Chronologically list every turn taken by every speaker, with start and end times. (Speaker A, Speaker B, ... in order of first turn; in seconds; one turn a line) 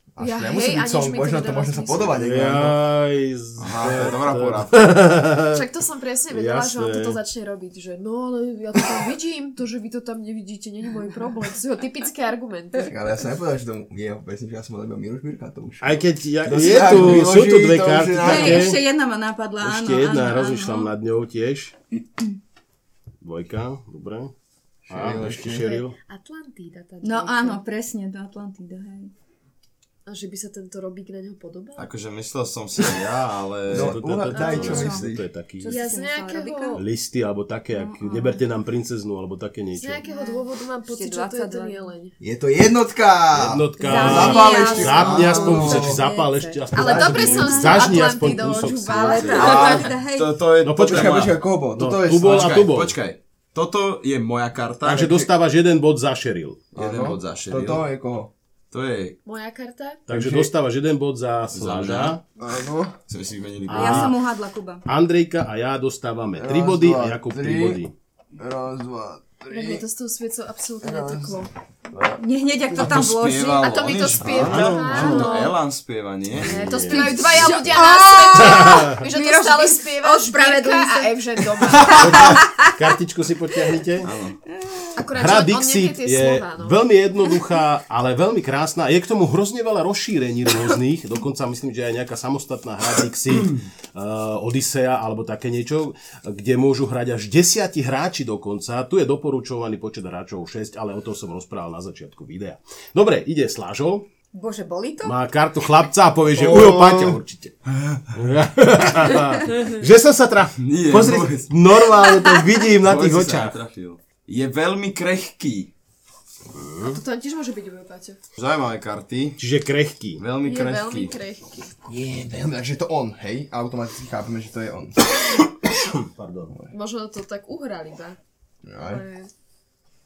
Speaker A: 0.1-2.8
Speaker B: 0.2-2.1
Speaker C: 2.1-5.6
Speaker D: 3.6-4.9
Speaker B: 5.5-12.9
Speaker C: 6.3-7.2
Speaker A: 12.8-18.8
Speaker C: 15.8-18.8
Speaker E: 18.1-20.9
Speaker C: 19.6-21.7
Speaker C: 23.2-24.3
Speaker A: 24.9-25.7
Speaker C: 24.9-26.0
Speaker B: 25.5-27.6
Speaker E: 27.0-29.1
Speaker B: 30.1-31.9
Speaker D: 31.8-34.0
Speaker A: 33.7-35.3
Speaker C: 33.7-35.8
Speaker B: 34.3-34.8
Speaker E: 34.6-35.0
Speaker E: 35.6-36.8
Speaker B: 35.7-36.8
Speaker C: 36.7-40.0
Speaker E: 37.7-38.4
Speaker B: 39.8-42.1
Speaker E: 40.0-41.9
Speaker A: 42.2-46.0
Speaker C: 43.3-49.4
Speaker E: 43.8-50.4
Speaker B: 44.4-44.9
Speaker D: 45.0-45.5
Speaker B: 46.7-49.9
Speaker A: 46.8-47.2
Speaker D: 49.2-51.4
Speaker A: 49.4-49.9
Speaker C: 50.6-53.0
Speaker A: 50.7-52.6
Speaker D: 52.2-55.2
Speaker C: 54.8-56.6
Speaker D: 56.8-57.8
Speaker A: 56.8-58.3
Speaker D: 58.7-59.2
Speaker B: 59.2-60.0
Speaker C: 60.1-62.2
Speaker A: 60.1-60.5
Speaker D: 61.5-62.2
Speaker A: 62.4-63.0
Speaker D: 63.1-64.2
Speaker C: 63.7-64.2
Speaker E: 63.7-64.8
Speaker C: 64.9-67.9
Speaker A: 66.4-67.8
Speaker A: 68.4-69.8
Speaker B: 69.5-71.5
Speaker A: 70.8-72.9
Speaker E: 72.2-73.7
Speaker D: 72.8-77.8
Speaker B: 73.5-75.6
Speaker A: 74.2-74.7
Speaker C: 74.4-75.5
Speaker B: 76.4-82.4
Speaker C: 76.4-77.2
Speaker E: 76.9-82.9
Speaker C: 78.3-79.0
Speaker C: 81.9-84.1
Speaker D: 84.0-84.4
Speaker E: 84.5-85.0
Speaker B: 85.0-86.8
Speaker C: 85.1-104.1
Speaker E: 104.3-105.2
Speaker C: 105.0-107.5
Speaker A: 106.3-107.3
Speaker D: 107.7-108.2
Speaker C: 108.1-113.6
Speaker D: 110.6-111.5
Speaker E: 112.0-112.5
Speaker D: 112.8-115.7
Speaker C: 116.5-117.0
Speaker B: 116.9-118.2
Speaker D: 118.4-119.4
Speaker C: 119.4-120.2
Speaker D: 120.2-121.1
Speaker B: 120.4-121.7
Speaker A: 121.8-125.2
Speaker C: 125.8-126.5
Speaker B: 126.7-128.2
Speaker A: 128.6-129.0
Speaker B: 128.9-129.3